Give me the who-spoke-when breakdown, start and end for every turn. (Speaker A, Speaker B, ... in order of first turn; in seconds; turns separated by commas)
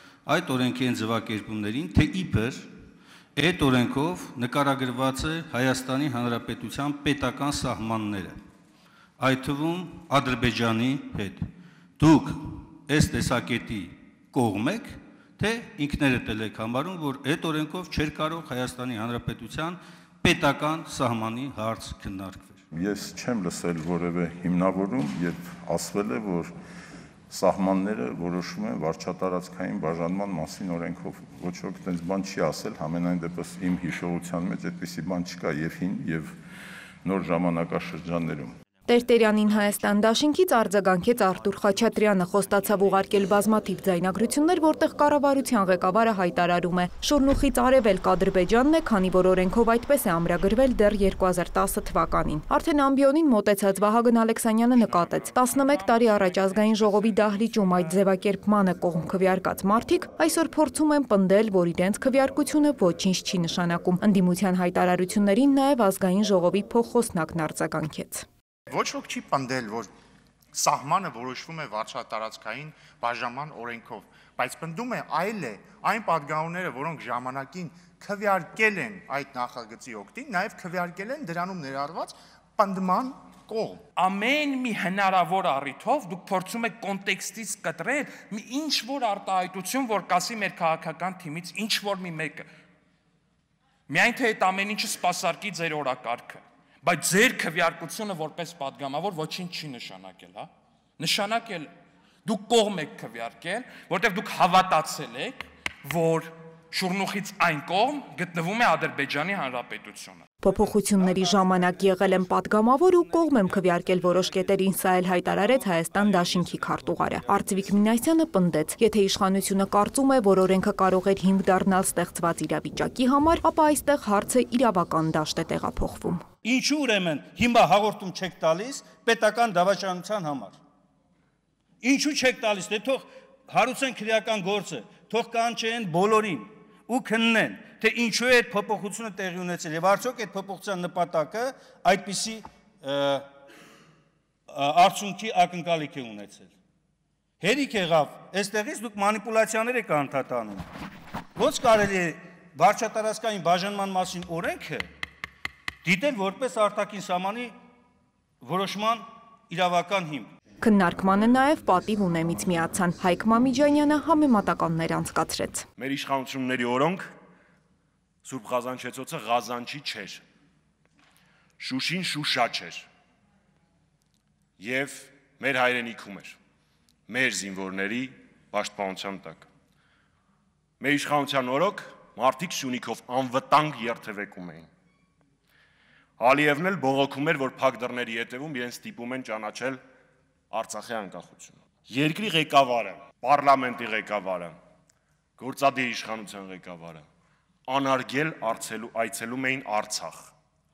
Speaker A: 0.2-2.7, Speaker A: 3.4-8.4, Speaker A: 9.2-11.5, Speaker A: 12.0-22.6, Speaker B: 22.7-26.5, Speaker B: 27.3-36.3, Speaker B: 37.0-38.5, Speaker C: 38.9-68.2, Speaker D: 54.9-58.0, Speaker E: 68.7-69.9, Speaker E: 70.5-83.8, Speaker D: 84.0-92.5, Speaker D: 93.9-100.5, Speaker D: 101.0-101.7, Speaker D: 102.2-110.3, Speaker C: 110.4-126.2, Speaker A: 110.5-117.6, Speaker A: 126.4-130.6, Speaker A: 131.8-143.3, Speaker A: 144.5-146.5, Speaker A: 147.4-150.6, Speaker A: 151.3-154.9, Speaker A: 155.8-157.5, Speaker A: 158.4-160.3, Speaker C: 160.6-165.7, Speaker F: 165.8-167.1, Speaker F: 168.2-170.2, Speaker F: 171.6-172.9, Speaker F: 174.6-176.4, Speaker F: 177.1-179.5, Speaker F: 180.8-184.7, Speaker F: 186.2-189.8, Speaker F: 190.5-194.6, Speaker F: 195.4-197.0, Speaker F: 197.7-200.3